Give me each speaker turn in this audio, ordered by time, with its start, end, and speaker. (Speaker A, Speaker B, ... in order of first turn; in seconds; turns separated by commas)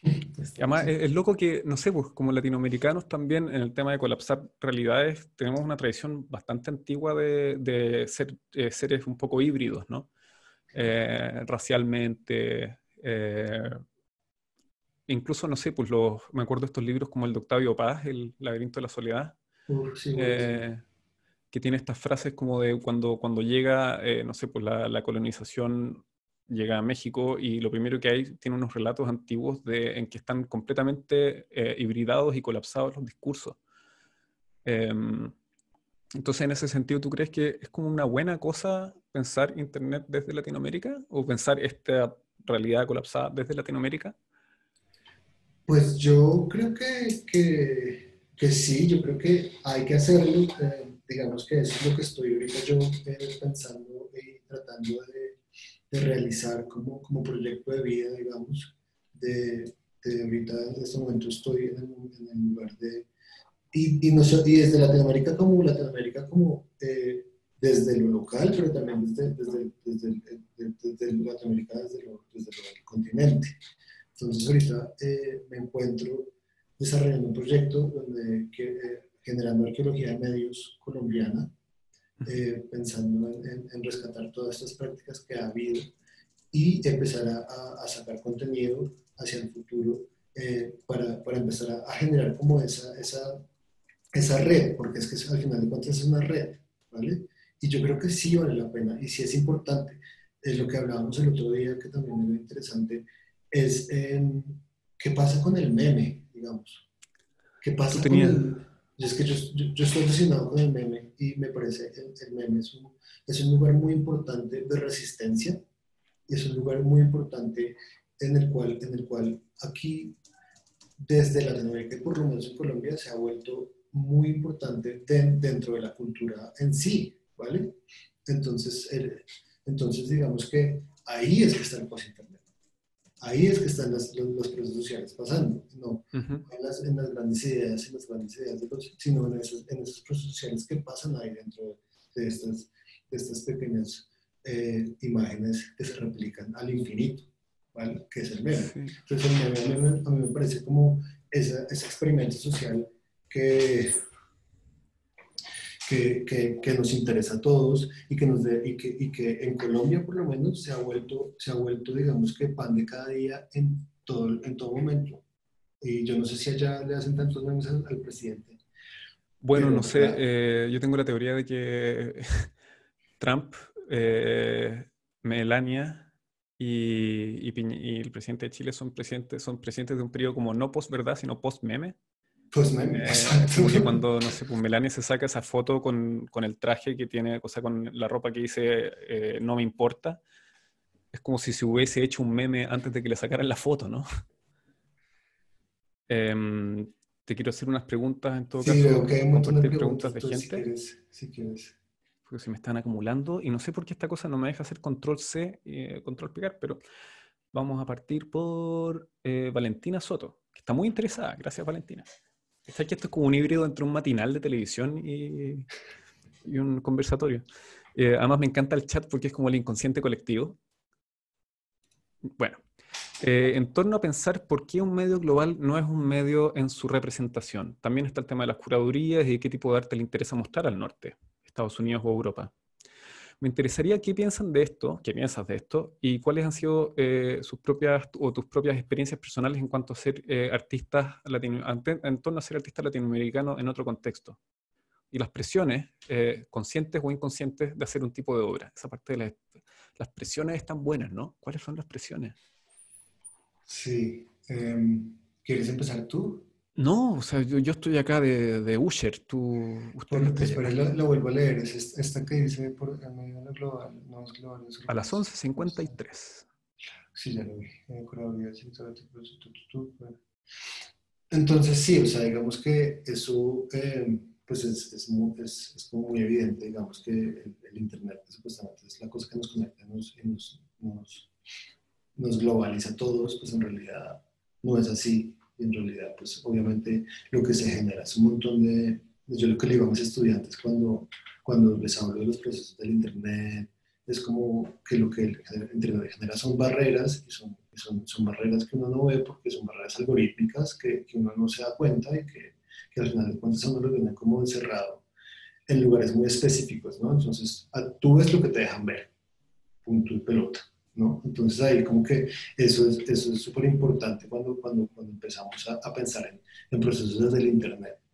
Speaker A: 0.4-0.9, Speaker B: 0.6-10.1, Speaker B: 10.7-13.8, Speaker B: 15.1-19.4, Speaker A: 19.7-20.6, Speaker B: 20.2-20.8, Speaker B: 21.5-33.6, Speaker B: 34.6-35.3, Speaker B: 36.2-44.1, Speaker A: 45.7-55.4, Speaker A: 55.9-63.1, Speaker A: 63.7-73.6, Speaker A: 74.2-81.5, Speaker A: 82.2-85.9, Speaker A: 86.5-93.4, Speaker A: 94.1-106.8, Speaker A: 107.6-115.6, Speaker B: 107.9-108.5, Speaker A: 116.3-120.2, Speaker A: 121.0-132.4, Speaker A: 133.2-154.0, Speaker B: 136.1-136.4, Speaker B: 148.6-149.0, Speaker A: 155.8-165.2, Speaker A: 165.8-168.6, Speaker B: 169.4-172.5, Speaker A: 169.5-170.2, Speaker B: 173.2-182.0, Speaker A: 182.5-184.0, Speaker B: 182.9-190.2, Speaker B: 191.1-194.1, Speaker B: 196.1-200.7, Speaker A: 198.6-201.8, Speaker B: 202.3-206.8, Speaker B: 207.5-212.1, Speaker B: 212.7-215.7, Speaker B: 216.4-217.4, Speaker B: 217.9-220.6, Speaker B: 222.3-222.6, Speaker B: 223.2-232.5, Speaker B: 233.4-244.4, Speaker B: 245.1-252.4, Speaker A: 253.7-256.5, Speaker B: 256.8-260.8, Speaker A: 260.1-265.9, Speaker B: 264.9-266.5, Speaker A: 267.1-270.2, Speaker A: 271.3-281.3, Speaker A: 282.2-305.1, Speaker A: 305.7-309.1, Speaker A: 309.9-318.0